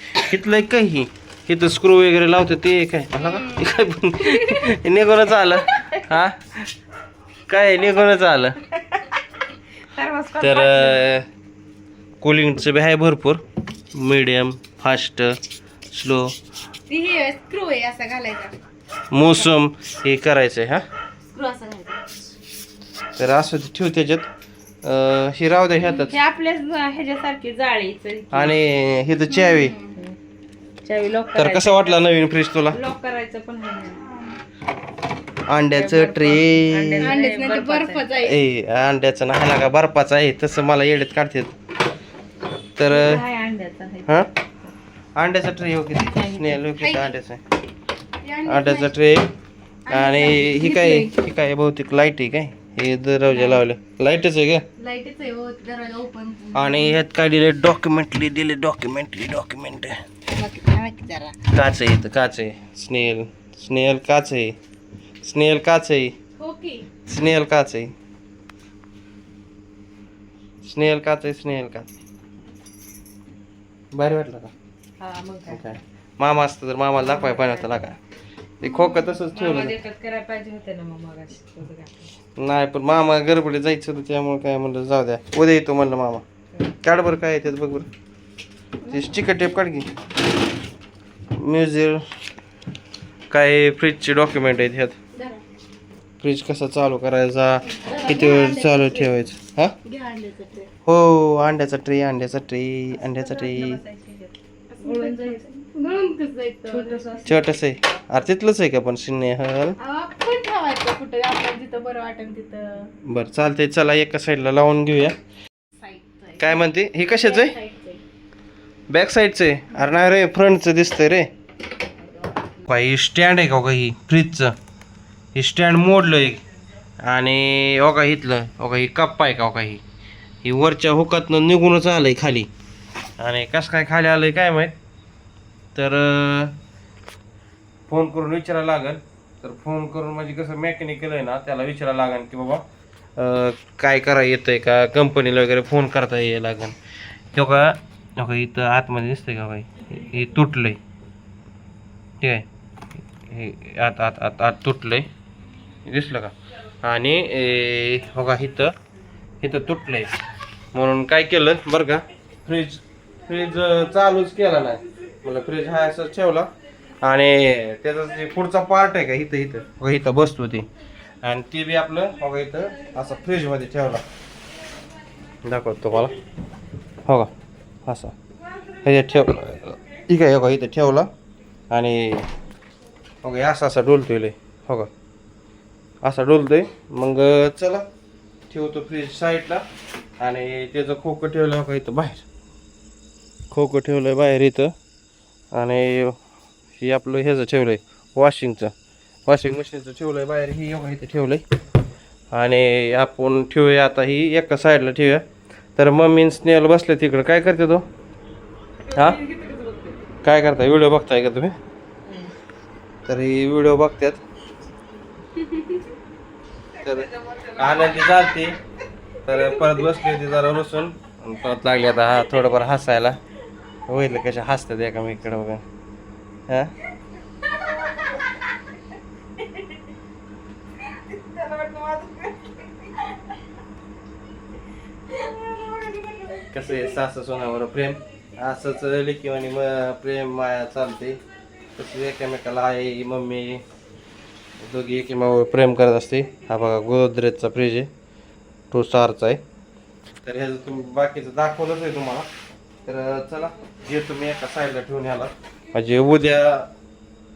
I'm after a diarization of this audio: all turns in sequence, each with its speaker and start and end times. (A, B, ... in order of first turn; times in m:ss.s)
0:00.2-0:06.7 A
0:03.2-0:04.6 B
0:07.5-0:08.6 A
0:07.8-0:08.3 B
0:09.8-0:11.1 C
0:10.4-0:11.3 A
0:12.2-0:13.4 A
0:13.9-0:15.4 A
0:15.9-0:16.4 A
0:16.9-0:18.5 B
0:19.1-0:20.8 A
0:21.3-0:22.0 B
0:23.2-0:24.3 A
0:24.8-0:26.2 A
0:26.0-0:28.6 C
0:28.3-0:29.7 A
0:29.3-0:30.0 B
0:30.8-0:32.0 C
0:31.4-0:32.8 A
0:32.7-0:34.0 C
0:34.1-0:34.4 B
0:35.5-0:37.2 A
0:35.7-0:38.0 C
0:37.0-0:38.3 B
0:38.2-0:41.5 A
0:42.8-0:43.2 A
0:42.8-0:44.8 C
0:45.2-0:47.4 A
0:46.0-0:46.7 C
0:46.8-0:47.2 B
0:48.2-0:49.2 B
0:48.5-0:49.3 A
0:49.9-0:51.1 B
0:49.9-0:54.6 A
0:53.3-0:53.6 C
0:54.8-0:57.0 B
0:56.5-1:00.0 A
1:00.3-1:01.4 B
1:01.5-1:04.6 A
1:05.2-1:06.1 A
1:06.4-1:06.9 B
1:07.1-1:07.9 A
1:10.6-1:11.9 A
1:13.9-1:14.5 A
1:15.0-1:15.7 C
1:15.5-1:18.0 A
1:17.0-1:17.9 C
1:18.6-1:19.8 A
1:18.6-1:19.2 B
1:19.3-1:22.1 C
1:22.4-1:26.2 A
1:26.8-1:27.9 A
1:28.9-1:29.9 A
1:31.3-1:32.1 A
1:33.3-1:35.0 A
1:35.1-1:35.4 B
1:36.2-1:39.8 A
1:37.7-1:39.1 B
1:39.8-1:40.7 B
1:40.9-1:43.8 A
1:42.9-1:45.5 C
1:44.7-1:47.0 B
1:46.7-1:47.4 C
1:47.3-1:49.8 A
1:49.8-1:52.9 B
1:53.0-1:55.2 A
1:55.8-1:58.0 B
1:56.4-1:57.6 A
1:58.9-2:01.3 A
2:02.6-2:04.6 A
2:05.4-2:06.4 A
2:07.0-2:09.8 A
2:10.4-2:12.5 A
2:13.2-2:14.8 A
2:15.8-2:16.6 A
2:17.9-2:22.6 A
2:23.2-2:26.8 A
2:27.3-2:30.8 A
2:32.2-2:32.5 A
2:33.2-2:35.1 A
2:35.9-2:38.7 A
2:39.4-2:40.1 A
2:40.7-2:46.5 A
2:47.0-2:50.7 A
2:51.2-2:54.0 A
2:55.4-2:56.2 A
2:57.9-2:58.2 A
2:58.8-3:01.1 A
3:01.7-3:02.3 A
3:03.2-3:04.9 A
3:06.0-3:07.9 A
3:08.5-3:09.7 A
3:10.2-3:12.2 A
3:13.5-3:14.7 A
3:15.5-3:16.2 A
3:16.8-3:18.7 A
3:19.3-3:21.4 A
3:22.3-3:25.2 A
3:25.8-3:27.9 A
3:28.8-3:30.0 C
3:28.9-3:29.2 A
3:30.2-3:31.6 A
3:32.0-3:32.3 C
3:33.1-3:34.2 A
3:35.4-3:35.8 B
3:36.8-3:38.6 A
3:36.8-3:38.1 C
3:39.2-3:43.2 A
3:39.4-3:39.9 C
3:43.9-3:45.6 A
3:51.1-3:52.6 C
3:55.5-3:56.5 C
3:56.5-4:01.2 A
4:01.8-4:03.6 A
4:04.6-4:07.9 A
4:08.7-4:09.4 A
4:10.2-4:12.3 A
4:12.9-4:16.7 A